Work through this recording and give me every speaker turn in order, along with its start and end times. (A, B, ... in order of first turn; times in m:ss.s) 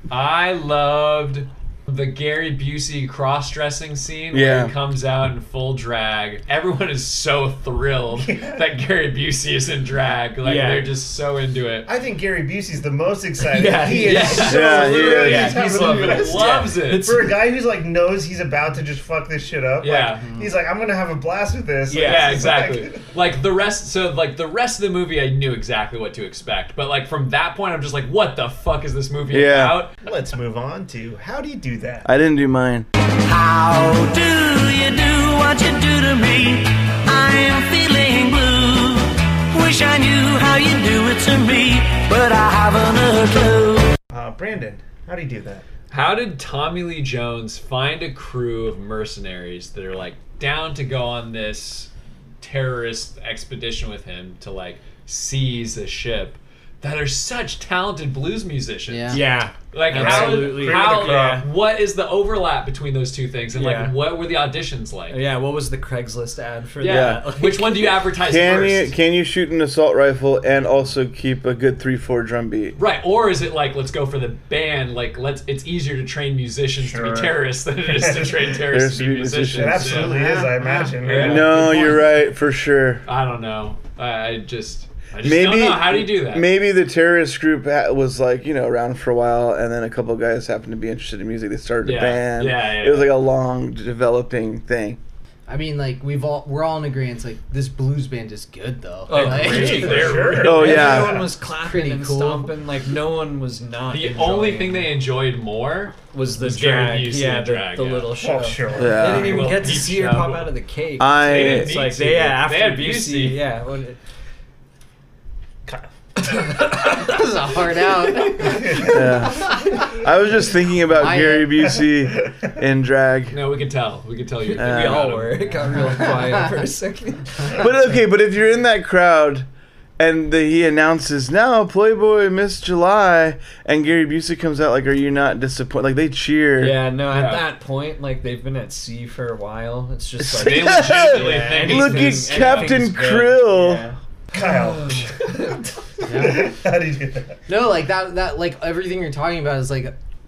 0:00.1-0:11.9 A
0:04.3-0:04.7 B
0:08.1-0:08.8 C
0:10.4-0:10.9 D
0:11.9-0:23.1 C
0:13.4-0:17.3 D
0:13.9-0:17.2 A
0:14.3-0:15.6 B
0:19.8-0:20.3 A
0:20.2-0:20.5 E
0:21.9-0:22.6 D
0:22.0-0:29.9 A
0:29.3-0:29.8 B
0:30.0-0:32.1 C
0:32.0-0:32.9 B
0:33.4-0:38.7 F
0:39.6-0:43.8 F
0:44.1-0:45.7 C
0:45.9-1:05.2 A
0:58.9-0:59.2 E
0:59.1-1:01.4 D
0:59.8-1:01.5 C
1:03.5-1:04.0 D
1:05.1-1:08.0 D
1:06.8-1:09.0 A
1:06.8-1:07.3 B
1:08.1-1:12.8 B
1:12.8-1:20.2 A
1:16.7-1:18.6 C
1:18.6-1:20.1 B
1:19.4-1:22.0 C
1:20.0-1:21.0 E
1:21.0-1:22.0 A
1:21.1-1:23.0 B
1:23.1-1:26.5 A
1:25.2-1:35.0 B
1:31.8-1:33.2 A
1:35.5-1:40.3 E
1:39.1-1:44.9 D
1:39.1-1:40.7 A
1:39.3-1:41.2 C
1:40.4-1:41.3 B
1:41.4-1:42.5 E
1:43.9-1:48.2 A
1:46.1-1:54.0 D
1:48.1-1:49.5 C
1:48.7-1:49.5 B
1:49.1-1:50.5 A
1:51.0-1:51.8 B
1:51.2-1:53.4 A
1:55.7-1:56.5 C
1:56.6-1:56.9 D
1:56.6-1:59.9 E
1:58.4-1:59.2 C
1:58.8-2:03.4 B
2:01.0-2:01.6 E
2:01.7-2:02.5 C
2:03.3-2:05.6 A
2:04.4-2:07.7 D
2:04.6-2:05.2 B
2:05.8-2:06.5 E
2:07.6-2:09.5 B
2:10.0-2:16.8 B
2:16.6-2:25.6 D
2:17.0-2:17.5 A
2:20.2-2:23.8 B
2:20.4-2:22.8 A
2:24.3-2:27.4 C
2:26.1-2:26.6 E
2:27.5-2:29.9 E